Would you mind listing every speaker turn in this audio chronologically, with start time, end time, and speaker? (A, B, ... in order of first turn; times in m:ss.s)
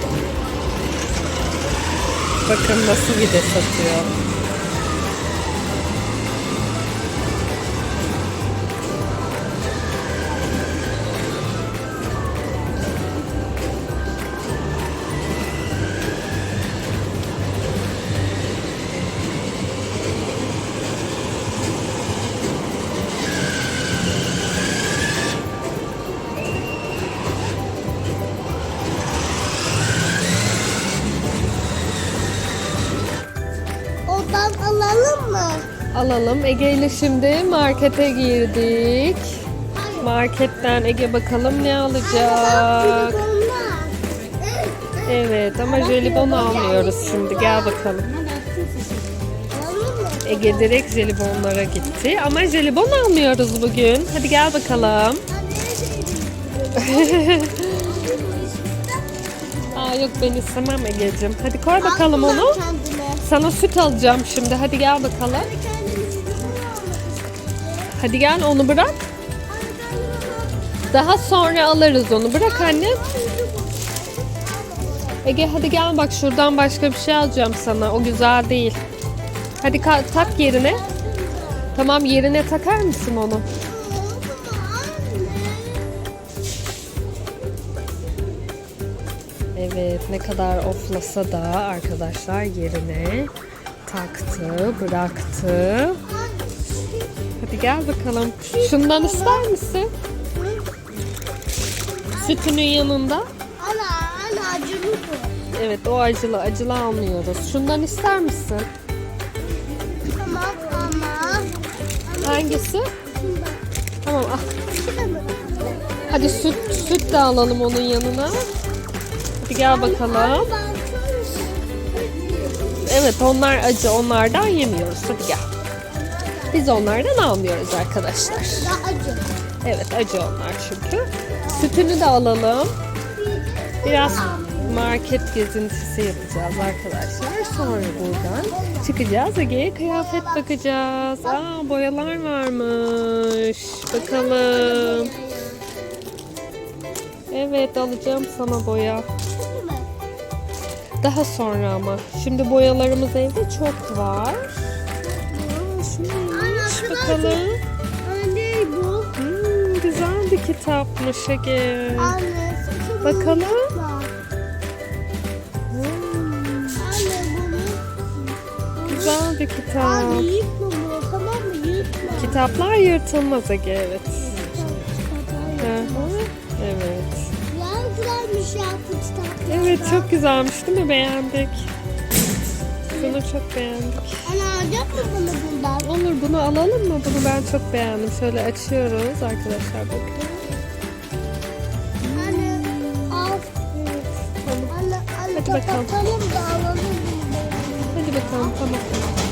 0:02.5-0:04.1 A
0:34.0-0:35.7 B
0:35.9-0:39.4 A
0:39.7-0:40.1 B
0:40.0-0:43.2 A
0:42.0-0:48.0 B
0:45.1-0:48.1 A
0:49.5-0:50.8 B
0:50.2-0:55.2 A
0:55.3-1:00.3 B
0:56.8-0:57.8 A
0:59.7-1:02.6 A
1:01.8-1:03.2 B
1:03.2-1:05.5 A
1:05.3-1:08.0 B
1:07.9-1:09.0 A
1:09.5-1:10.6 B
1:10.9-1:13.0 A
1:12.3-1:15.5 B
1:15.2-1:18.8 A
1:19.6-1:20.8 A
1:19.6-1:21.7 B
1:21.7-1:23.4 A
1:23.6-1:25.9 B
1:29.5-1:33.3 A
1:33.8-1:36.0 A
1:36.0-1:37.1 B
1:37.4-1:39.9 A
1:38.5-1:39.5 B
1:40.3-1:40.6 B
1:41.9-1:42.7 B
1:42.2-1:43.3 A
1:43.6-1:45.4 B
1:45.5-1:48.7 A
1:50.0-1:51.5 B
1:52.0-1:53.6 B
1:52.2-1:52.9 A
1:54.0-1:54.5 A
1:54.6-1:57.3 B
1:56.1-1:58.5 A
1:59.4-2:00.5 A
1:59.6-2:02.9 B
2:02.8-2:05.4 A
2:05.9-2:06.8 B
2:06.5-2:08.8 A
2:08.2-2:09.3 B
2:09.6-2:12.7 A
2:11.3-2:11.8 B
2:13.1-2:15.0 B
2:13.8-2:25.1 A
2:16.9-2:19.0 B
2:19.8-2:20.5 B
2:23.9-2:25.7 B
2:27.3-2:29.0 A
2:29.4-2:29.9 B
2:31.0-2:34.6 A
2:35.0-2:37.4 B
2:35.8-2:37.6 A
2:38.0-2:39.1 B
2:39.2-2:42.2 A
2:42.0-2:44.1 B
2:43.0-2:43.7 A
2:45.7-2:46.9 A
2:46.8-2:47.8 B
2:48.8-2:49.2 B
2:48.9-2:50.3 A
2:49.7-2:52.6 B
2:52.2-2:54.4 A
2:54.2-2:56.2 B
2:55.6-2:57.3 A
2:57.5-3:00.1 B
2:59.5-3:01.7 A
3:02.9-3:03.2 B
3:02.9-3:04.3 A
3:04.2-3:05.9 B
3:05.8-3:10.4 A
3:12.0-3:14.7 A
3:12.1-3:13.5 B
3:14.7-3:18.6 B
3:15.4-3:15.9 A
3:17.9-3:18.9 A